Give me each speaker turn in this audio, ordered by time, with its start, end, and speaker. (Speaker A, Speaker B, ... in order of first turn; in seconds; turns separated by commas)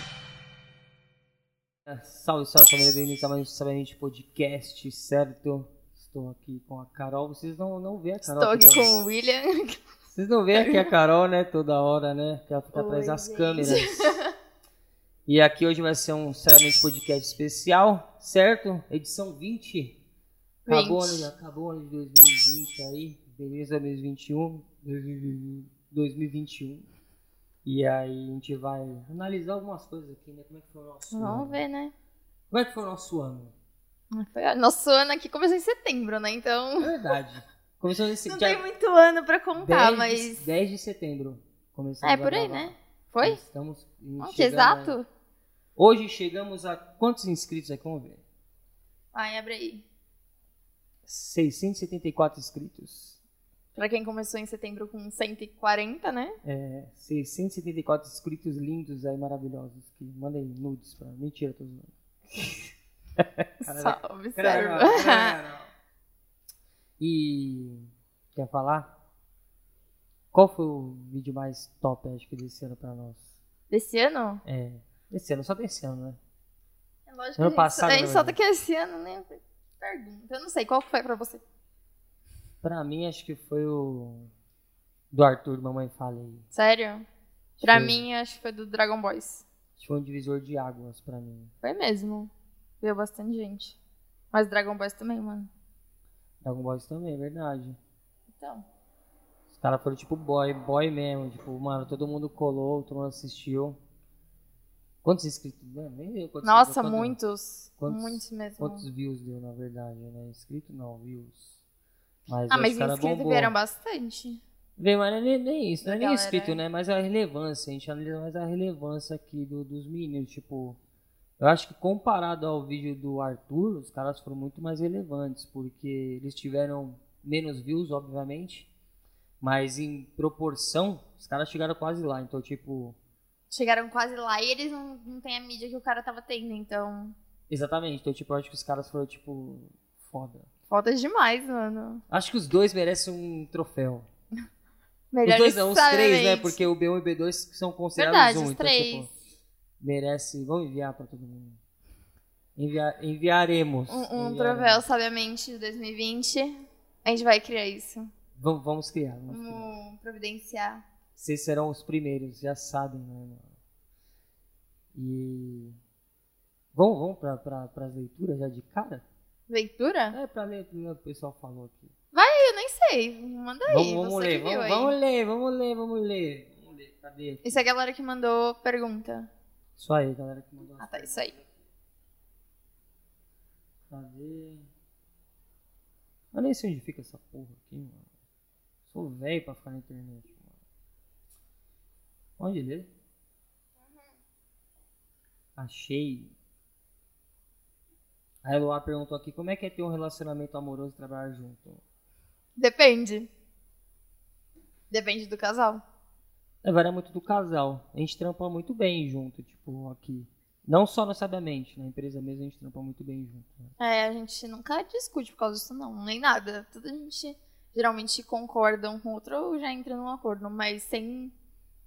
Speaker A: 1.9-9.0, Speaker B: 8.2-9.9, Speaker A: 10.1-14.2, Speaker B: 10.6-10.9, Speaker B: 12.7-14.3, Speaker A: 15.3-20.0, Speaker B: 20.7-21.3, Speaker A: 20.7-26.9, Speaker A: 27.6-31.6, Speaker B: 31.1-31.9, Speaker A: 32.5-33.5, Speaker B: 34.1-37.0, Speaker A: 36.8-38.6, Speaker B: 38.2-40.5, Speaker A: 39.6-45.0, Speaker B: 42.0-43.4, Speaker B: 44.2-45.1, Speaker A: 45.8-48.2, Speaker B: 49.1-49.9, Speaker A: 51.1-53.2, Speaker B: 53.8-56.4, Speaker A: 56.4-65.7, Speaker B: 63.7-65.3, Speaker A: 67.0-68.9, Speaker A: 70.3-73.3, Speaker B: 73.7-74.4, Speaker A: 74.5-76.2, Speaker B: 77.1-81.4, Speaker A: 77.4-78.4, Speaker A: 82.6-84.3, Speaker A: 85.1-86.5, Speaker B: 86.5-87.1, Speaker A: 87.6-88.0, Speaker B: 87.6-89.5, Speaker A: 89.8-91.5, Speaker B: 91.6-93.8, Speaker B: 94.3-95.5, Speaker A: 96.4-97.8, Speaker B: 98.3-98.7, Speaker A: 99.5-103.8, Speaker A: 105.0-107.2, Speaker B: 106.4-108.9, Speaker A: 107.8-111.5, Speaker A: 112.3-113.5, Speaker B: 112.5-114.4, Speaker A: 114.8-120.8, Speaker B: 115.8-116.6, Speaker A: 121.4-128.7, Speaker A: 129.4-133.0, Speaker B: 133.5-137.2, Speaker A: 137.5-140.5, Speaker B: 140.7-142.0, Speaker A: 142.1-144.1, Speaker B: 145.1-146.7, Speaker A: 145.2-149.1, Speaker B: 148.0-149.1, Speaker A: 149.8-151.6, Speaker A: 152.6-154.9, Speaker B: 153.9-158.1, Speaker A: 158.4-159.7, Speaker B: 159.3-160.8, Speaker A: 161.2-163.5, Speaker A: 164.9-165.8, Speaker A: 166.7-169.1, Speaker B: 169.5-170.2, Speaker A: 170.1-171.9, Speaker B: 172.1-174.9, Speaker A: 173.7-177.7, Speaker B: 177.4-179.3, Speaker A: 179.8-181.6, Speaker B: 180.8-181.3, Speaker A: 183.9-184.7, Speaker A: 186.3-188.1, Speaker A: 188.9-190.5, Speaker A: 192.4-192.9, Speaker B: 193.8-194.1, Speaker A: 195.6-196.3, Speaker A: 198.4-201.8, Speaker B: 202.6-203.3, Speaker B: 204.9-205.8, Speaker A: 206.6-213.7, Speaker B: 213.8-221.3